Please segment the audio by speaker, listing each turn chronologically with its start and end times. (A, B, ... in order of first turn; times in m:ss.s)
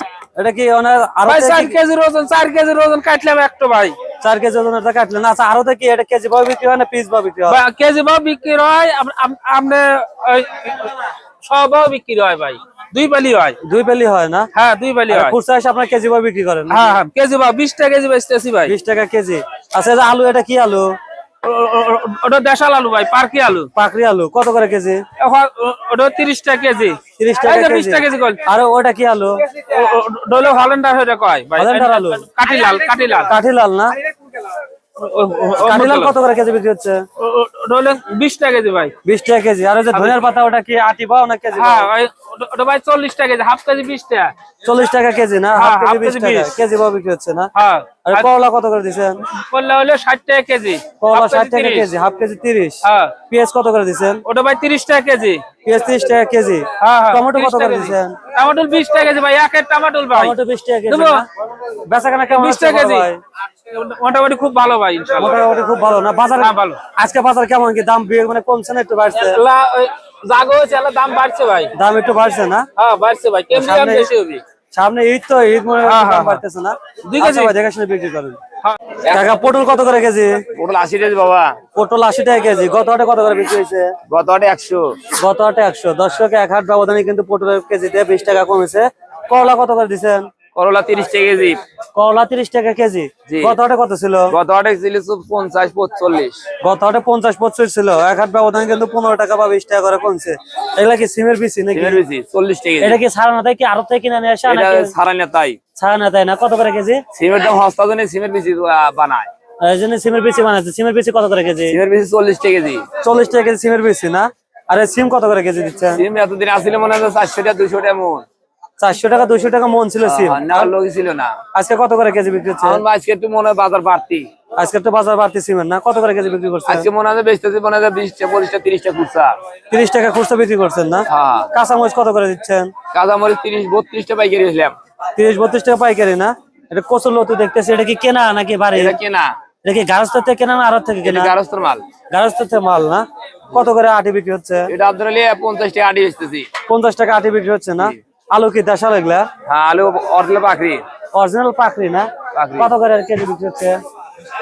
0:00.4-0:01.8 A
0:01.3-0:04.0 B
0:04.2-0:07.6 A
0:07.5-0:13.6 B
0:13.6-0:14.5 A
0:14.6-0:15.4 B
0:15.1-0:17.0 A
0:16.7-0:18.7 B
0:18.7-0:21.0 A
0:21.4-0:23.7 B
0:23.8-0:25.0 A
0:25.2-0:28.4 B
0:27.2-0:29.4 A
0:29.6-0:33.3 B
0:31.6-0:32.3 A
0:33.2-0:34.0 A
0:35.0-0:36.1 B
0:35.6-0:37.0 A
0:37.2-0:38.9 B
0:39.0-0:41.9 A
0:41.6-0:44.3 B
0:44.6-0:47.5 A
0:45.6-0:46.6 B
0:47.6-0:48.3 B
0:48.0-0:49.2 A
0:49.3-0:51.9 B
0:51.0-0:54.2 A
0:52.8-0:53.2 B
0:54.3-0:55.4 B
0:55.6-0:58.2 A
0:56.8-1:00.4 B
1:00.1-1:01.3 A
1:00.9-1:01.2 B
1:01.9-1:03.2 A
1:02.3-1:03.1 B
1:03.7-1:05.4 B
1:05.2-1:09.4 A
1:06.4-1:06.8 B
1:09.1-1:11.7 B
1:11.7-1:12.7 A
1:12.8-1:14.4 B
1:13.5-1:14.1 A
1:14.7-1:18.4 A
1:15.8-1:16.4 B
1:17.1-1:17.5 B
1:19.1-1:20.4 A
1:20.6-1:21.6 C
1:21.8-1:24.0 A
1:24.1-1:25.1 C
1:25.1-1:30.3 A
1:30.6-1:31.6 C
1:32.0-1:34.4 A
1:33.3-1:33.6 C
1:34.3-1:36.4 C
1:36.6-1:42.0 A
1:41.7-1:43.0 C
1:42.8-1:44.9 A
1:44.5-1:45.6 C
1:45.8-1:47.0 A
1:47.2-1:49.3 C
1:49.6-1:51.8 A
1:51.7-1:52.9 C
1:53.0-1:56.0 A
1:56.0-1:58.2 C
1:58.8-2:00.8 A
2:00.0-2:01.4 C
2:01.5-2:02.8 A
2:02.6-2:04.3 C
2:04.6-2:06.9 A
2:06.7-2:09.4 C
2:09.7-2:12.7 A
2:11.1-2:11.5 C
2:12.9-2:14.8 C
2:15.2-2:19.0 A
2:18.7-2:19.4 C
2:19.6-2:21.4 A
2:21.0-2:21.8 C
2:22.1-2:24.7 A
2:24.7-2:26.5 C
2:26.7-2:29.3 A
2:29.5-2:30.8 C
2:31.1-2:33.8 A
2:32.3-2:32.7 C